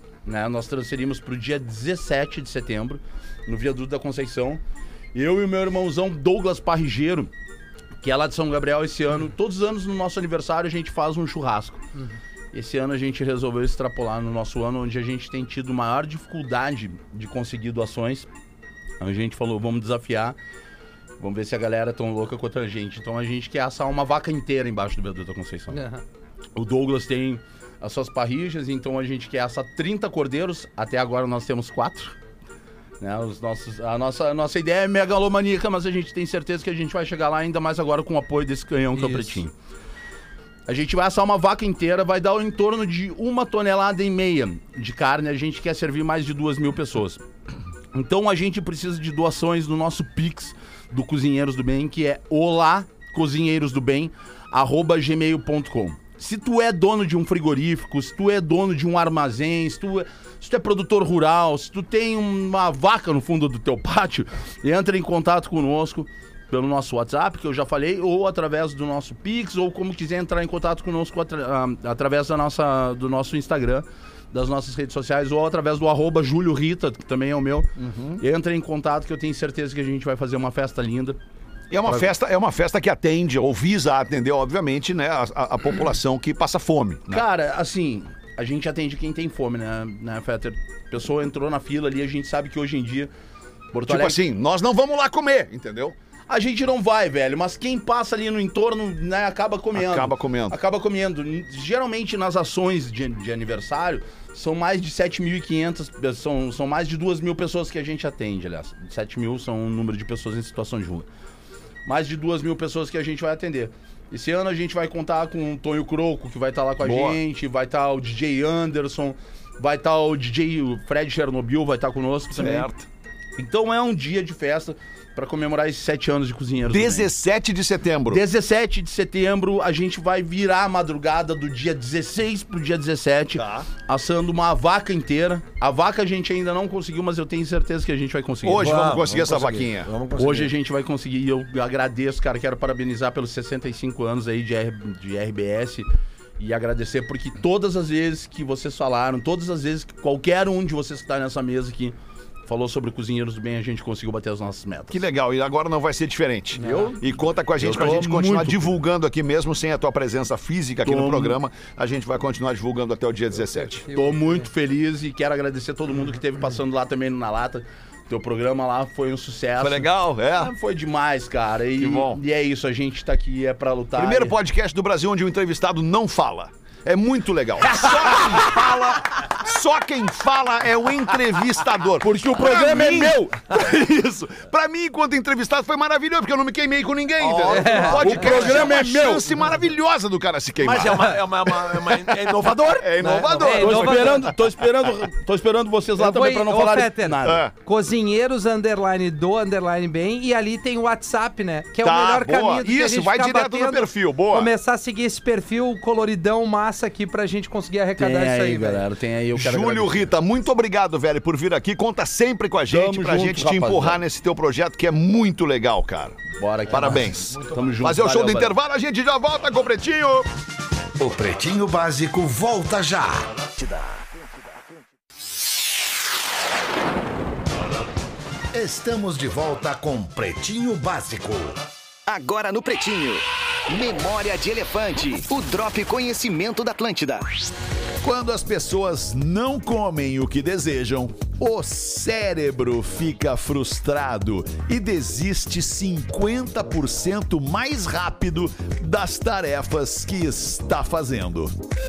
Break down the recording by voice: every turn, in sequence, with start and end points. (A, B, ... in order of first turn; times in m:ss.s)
0:00.3-0:04.6 A
0:05.1-0:07.3 A
0:08.0-0:11.8 A
0:12.5-0:18.3 A
0:19.0-0:20.4 A
0:21.2-0:25.8 A
0:25.7-0:26.0 B
0:26.6-0:32.2 A
0:33.0-0:39.5 A
0:38.9-0:39.4 B
0:40.7-0:47.2 A
0:47.9-1:17.7 A
1:17.8-1:18.2 C
1:18.2-1:21.2 A
1:21.7-1:27.3 C
1:27.1-1:33.1 A
1:33.7-1:34.2 A
1:33.9-1:36.0 C
1:36.3-1:51.1 A
1:39.8-1:40.6 C
1:51.9-2:02.7 A
1:56.8-1:57.2 C
2:02.3-2:02.9 C
2:03.4-2:07.1 A
2:06.7-2:08.2 C
2:08.1-2:18.8 A
2:13.3-2:13.7 C
2:18.4-2:19.9 C
2:18.5-2:20.5 D
2:20.1-2:25.9 A
2:26.4-2:35.0 A
2:34.9-2:43.9 C
2:36.6-2:37.0 B
2:36.6-2:36.9 D
2:37.6-2:38.8 A
2:40.8-2:41.4 A
2:43.9-2:54.4 A
2:43.9-2:44.4 B
2:49.6-2:50.5 C
2:51.8-2:52.2 C
2:54.0-3:14.4 C
3:02.0-3:03.1 A
3:02.3-3:03.2 D
3:07.2-3:08.8 D
3:07.5-3:08.3 B
3:07.9-3:09.4 A
3:10.6-3:13.5 D
3:13.1-3:14.2 B
3:13.5-3:17.4 A
3:16.0-3:28.8 B
3:17.2-3:17.5 C
3:21.8-3:24.5 C
3:28.0-3:30.1 A
3:29.4-3:40.3 C
3:32.7-3:34.0 A
3:36.3-3:38.6 A
3:41.0-3:43.3 E
3:43.6-3:44.2 F
3:48.5-3:51.6 E
3:52.1-3:57.2 F
3:58.0-4:11.5 C